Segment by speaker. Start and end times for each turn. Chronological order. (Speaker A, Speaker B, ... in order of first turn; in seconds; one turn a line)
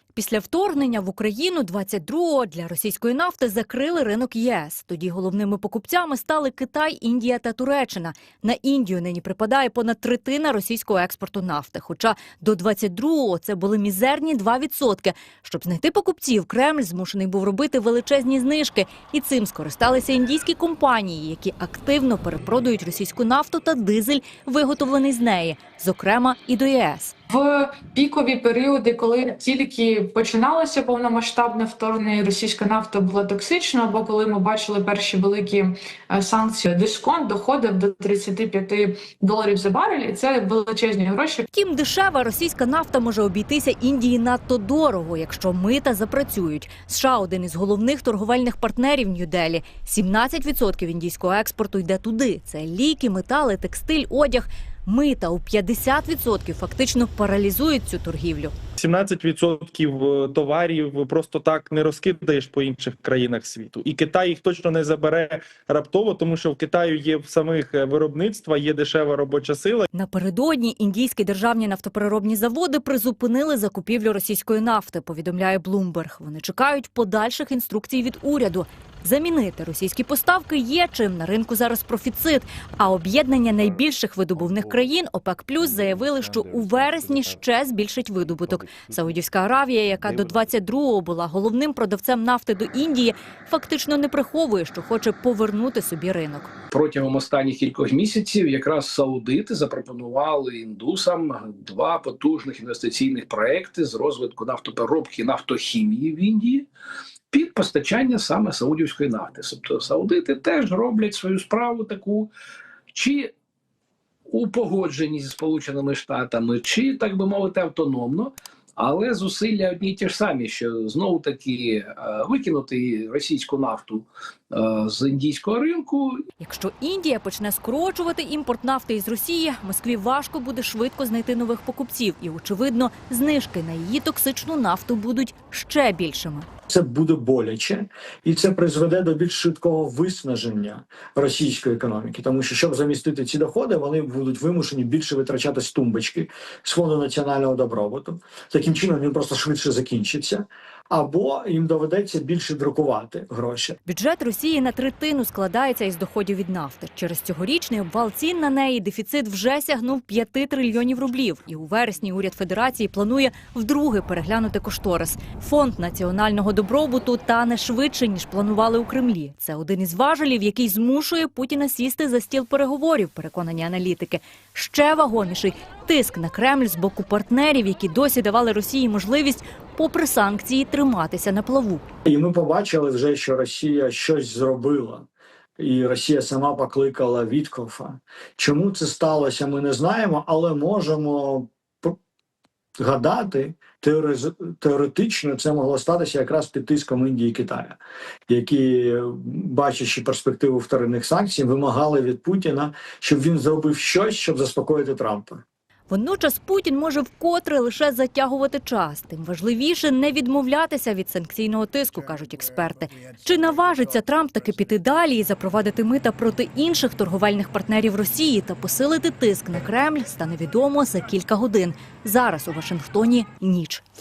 Speaker A: 0.1-27.1
Speaker B: 27.3-41.5
Speaker A: 41.5-58.5
Speaker C: 58.8-69.9
Speaker A: 69.9-96.5
Speaker D: 96.7-106.7
Speaker D: 107.3-112.3
Speaker D: 112.9-113.3
Speaker D: 114.3-126.2
Speaker A: 126.4-136.5
Speaker E: 136.7-153.8
Speaker A: 153.9-181.8
Speaker E: 182.0-192.0
Speaker E: 192.8-205.4
Speaker A: 205.9-223.8